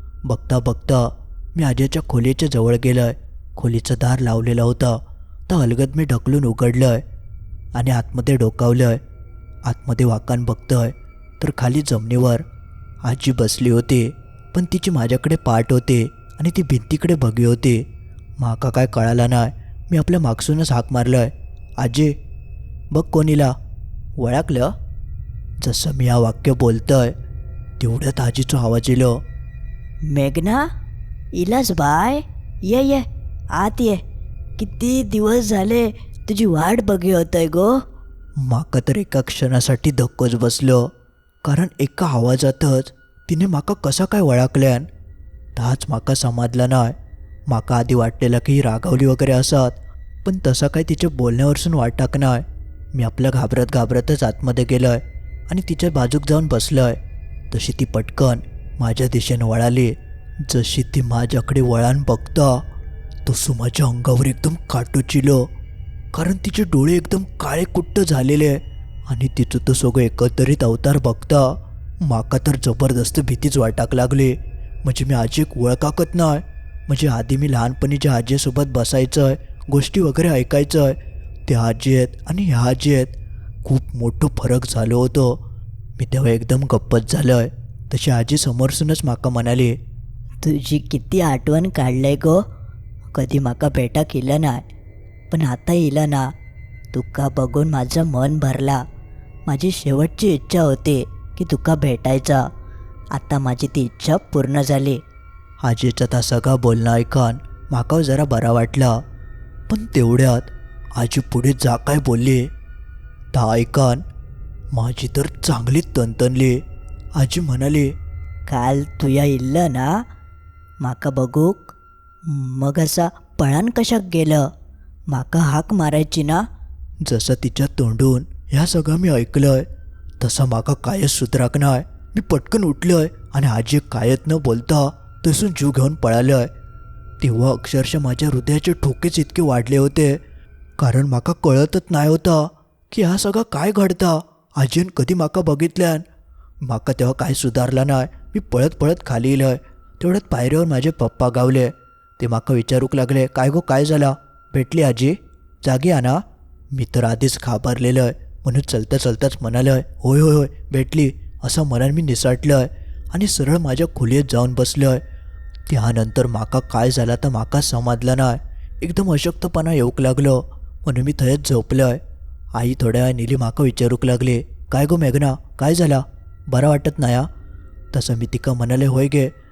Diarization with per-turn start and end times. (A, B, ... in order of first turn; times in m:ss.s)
0:00.3-0:07.0 A
0:07.8-0:09.0 A
0:09.7-0:12.4 A
0:13.0-0:17.8 A
0:18.4-0:22.2 A
0:22.9-0:23.6 A
0:24.2-0:24.7 A
0:25.6-0:27.1 A
0:27.8-0:29.2 A
0:30.1-0:30.7 B
0:31.4-0:34.0 B
0:34.6-0:37.8 B
0:38.4-0:40.9 A
0:41.4-0:44.9 A
0:45.6-0:47.0 A
0:47.5-0:57.0 A
0:57.5-1:02.6 A
1:03.3-1:05.5 A
1:06.1-1:25.4 A
1:26.0-1:29.8 A
1:30.4-1:32.5 B
1:33.1-1:34.7 B
1:35.3-1:36.3 B
1:36.9-1:38.8 B
1:39.5-1:42.5 B
1:43.1-1:45.0 B
1:45.6-1:49.0 A
1:49.7-1:52.5 A
1:53.3-1:54.0 A
1:54.7-1:56.6 A
1:57.2-1:57.9 A
1:58.5-2:00.0 B
2:00.8-2:04.5 B
2:05.1-2:06.4 B
2:07.0-2:09.7 A
2:10.2-2:16.5 A
2:17.2-2:20.2 A
2:20.8-2:26.0 A
2:26.6-2:45.0 A
2:45.7-2:52.0 A
2:52.6-2:57.3 A
2:57.9-2:59.3 A